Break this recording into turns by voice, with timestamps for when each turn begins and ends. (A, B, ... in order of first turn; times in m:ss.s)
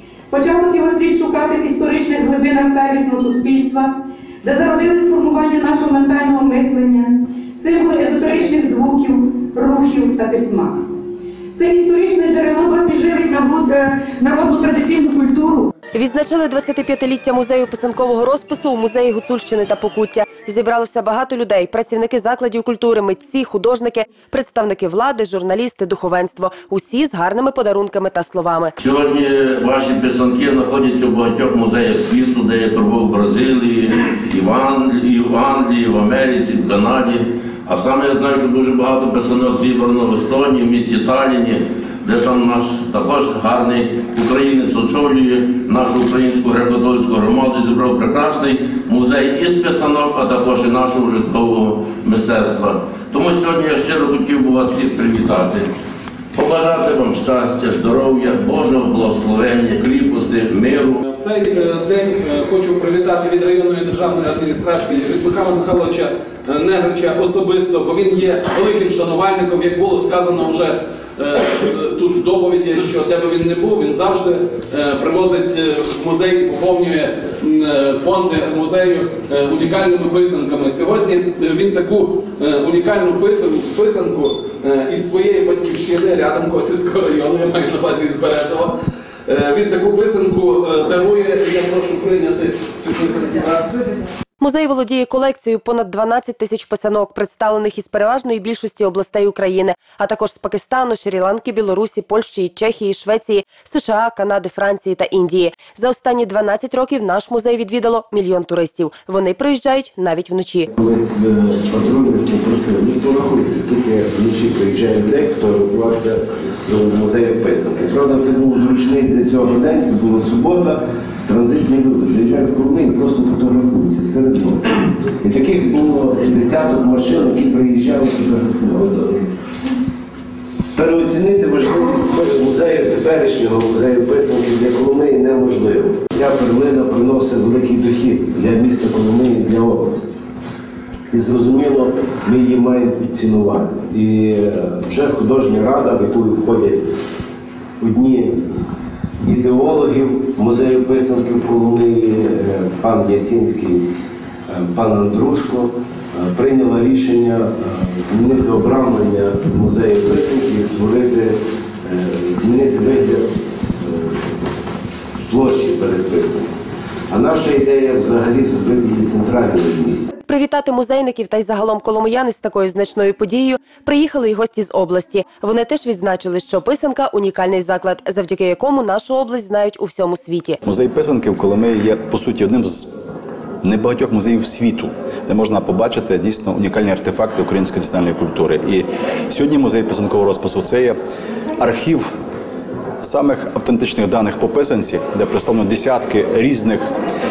0:00.3-0:10.9 A
0:11.6-0:15.7 A
0:16.0-0:28.7 B
0:28.8-0:55.7 C
0:56.4-1:01.0 C
1:01.0-1:28.8 D
1:29.3-1:33.8 D
1:34.4-1:50.7 B
1:50.8-2:09.3 E
2:10.7-2:20.2 E
2:21.1-2:26.9 E
2:27.8-2:33.8 E
2:34.5-2:44.2 E
2:45.2-2:46.5 E
2:47.1-2:50.1 E
2:50.2-3:00.6 B
3:00.6-3:02.9 F
3:03.6-3:11.0 F
3:11.6-3:12.1 F
3:13.0-3:16.9 F